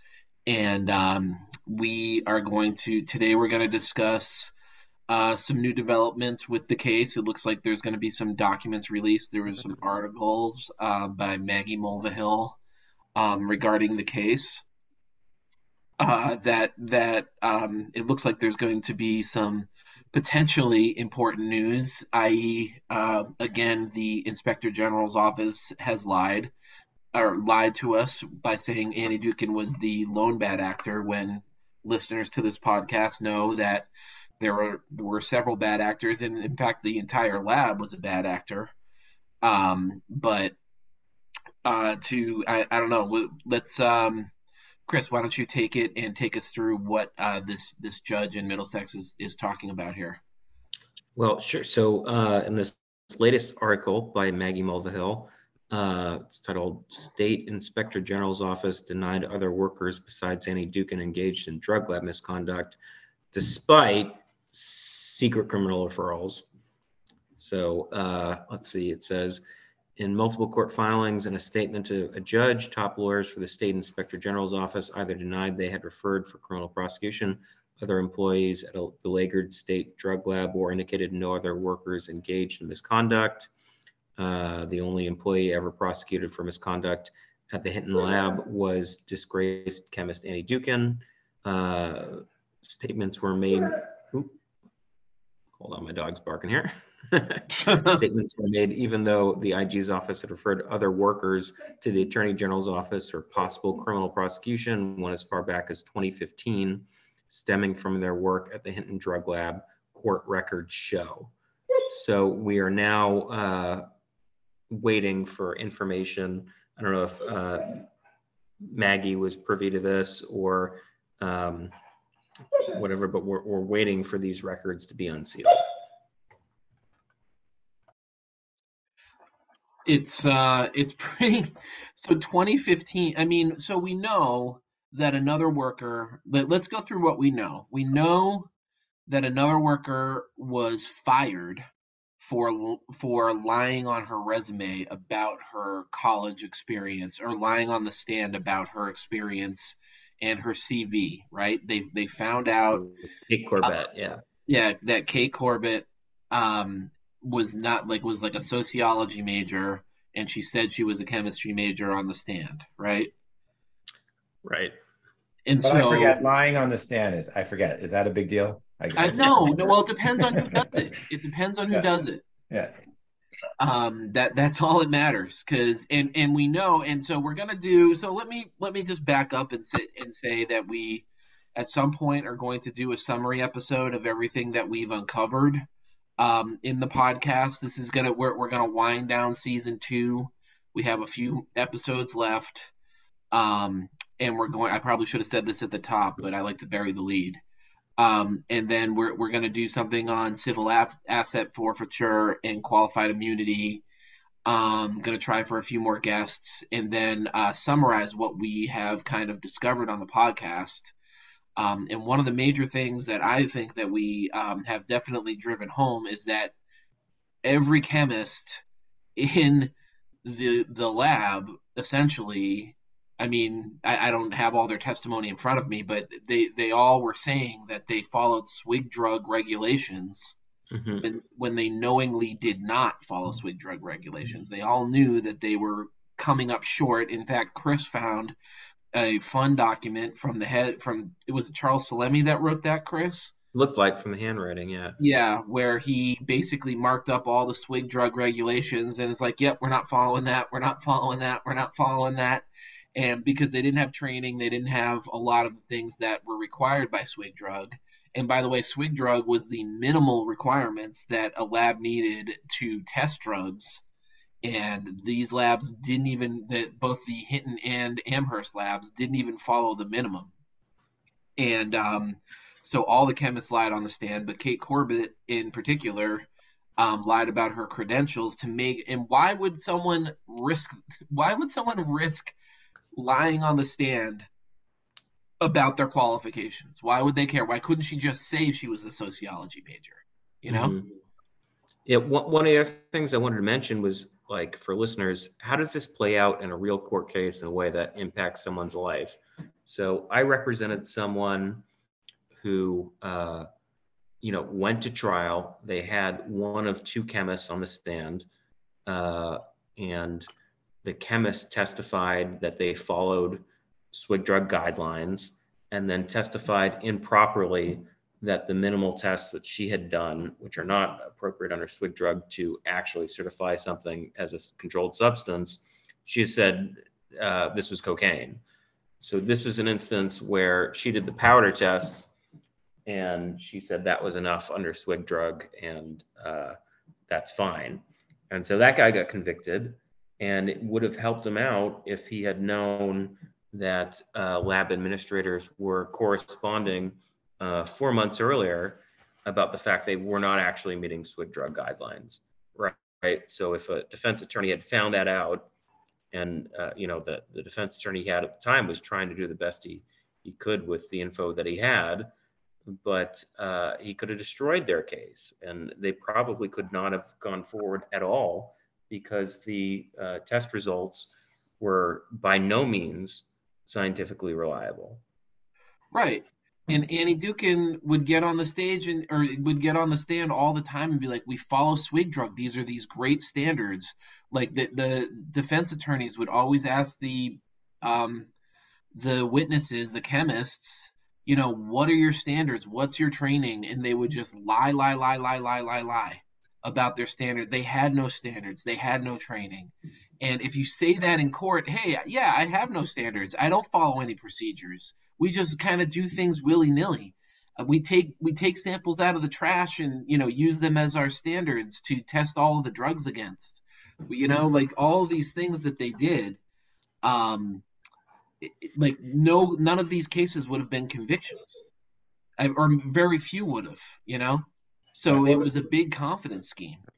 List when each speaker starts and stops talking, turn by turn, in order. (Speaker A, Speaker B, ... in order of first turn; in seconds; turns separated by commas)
Speaker A: 0.5-4.5, Speaker A: 5.1-12.6, Speaker A: 13.2-14.6, Speaker A: 16.0-26.5, Speaker A: 27.1-33.9, Speaker A: 34.4-38.7, Speaker A: 39.4-40.5, Speaker A: 41.6-44.3, Speaker A: 44.9-50.2, Speaker B: 51.1-62.8, Speaker B: 63.3-66.5, Speaker B: 67.4-69.4, Speaker B: 70.0-83.5, Speaker B: 84.2-94.3, Speaker B: 95.6-111.3, Speaker A: 97.5-98.0, Speaker B: 111.9-113.9, Speaker B: 114.7-117.9, Speaker B: 118.6-121.7, Speaker B: 122.6-125.7, Speaker A: 129.8-138.5, Speaker A: 139.1-141.7, Speaker A: 142.2-152.9, Speaker B: 152.8-154.2, Speaker A: 154.4-163.1, Speaker B: 164.4-164.8, Speaker A: 165.4-166.2, Speaker C: 165.6-170.8, Speaker A: 168.9-172.2, Speaker C: 172.5-172.8, Speaker A: 173.6-185.6, Speaker A: 186.2-192.7, Speaker A: 193.3-197.4, Speaker A: 198.0-203.8, Speaker A: 204.4-210.9, Speaker A: 211.6-216.5, Speaker A: 217.4-218.6, Speaker A: 219.2-219.7, Speaker A: 220.2-230.3, Speaker B: 230.7-231.0, Speaker A: 231.0-238.3, Speaker A: 238.9-243.3, Speaker B: 243.5-245.0, Speaker A: 245.0-263.8, Speaker A: 264.4-270.3, Speaker A: 271.4-276.2, Speaker A: 276.8-282.4, Speaker A: 282.9-284.3, Speaker A: 285.4-290.7, Speaker B: 290.5-291.0, Speaker B: 291.9-301.6, Speaker B: 302.4-303.5, Speaker B: 304.2-308.3, Speaker B: 308.9-310.3, Speaker B: 310.8-328.4, Speaker B: 329.0-332.1, Speaker B: 332.9-336.6, Speaker B: 337.1-355.5, Speaker B: 356.1-362.1, Speaker B: 362.7-375.0, Speaker A: 375.9-388.3, Speaker A: 388.9-416.4, Speaker A: 417.0-417.6, Speaker A: 418.4-421.6, Speaker A: 422.4-426.8, Speaker C: 425.1-425.5